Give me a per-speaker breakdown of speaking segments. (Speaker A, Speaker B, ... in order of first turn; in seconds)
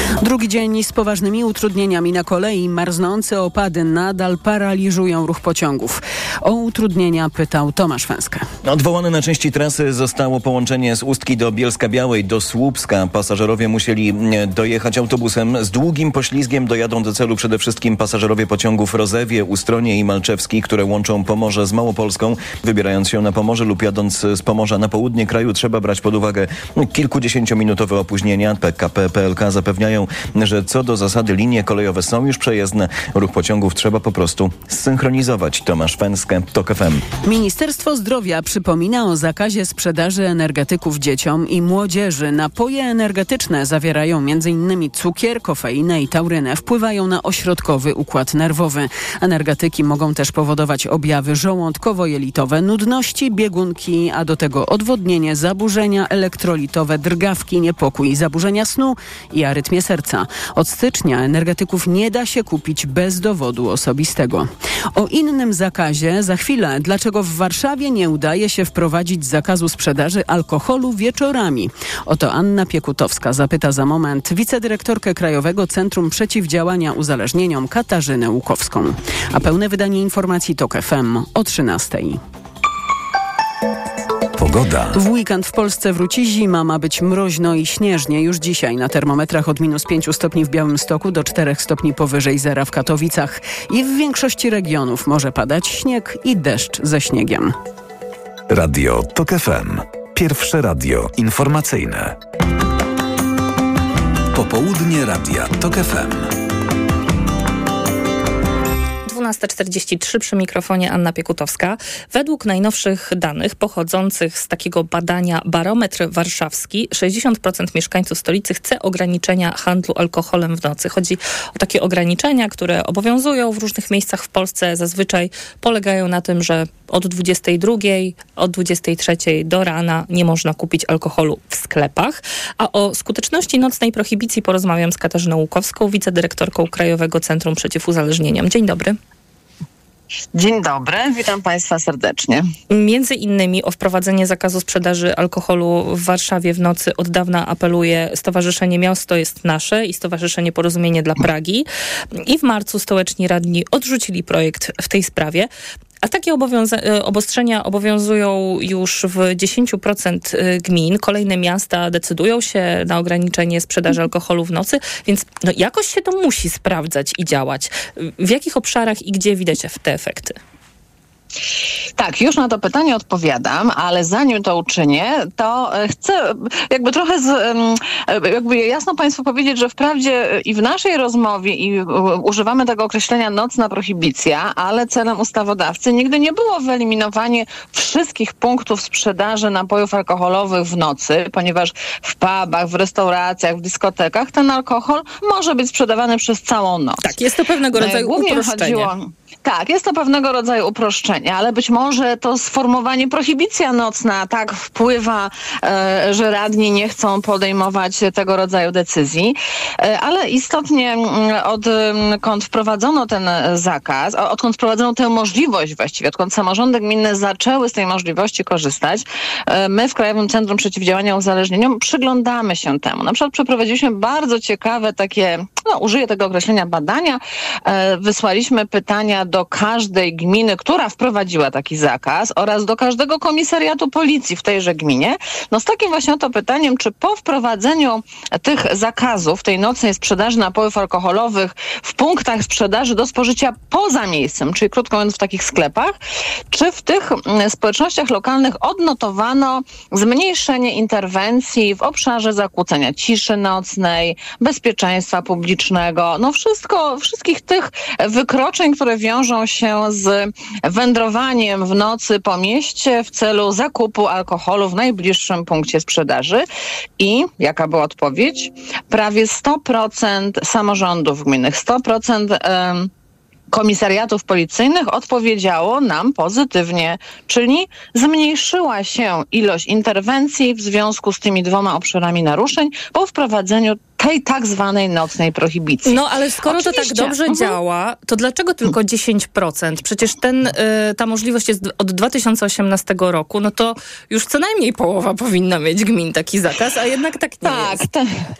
Speaker A: 0.2-8.5, 37.2-82.2, 85.0-97.5
Speaker B: 8.6-37.1
Speaker C: 84.4-85.0, 98.5-102.2, 104.3-106.3
Speaker D: 109.0-139.0, 142.7-155.5, 156.0-170.4, 197.0-198.9, 285.9-297.8
Speaker E: 140.3-142.5, 172.0-197.2, 197.7-245.9, 246.5-266.4, 267.0-272.9, 273.5-287.6, 297.4-298.1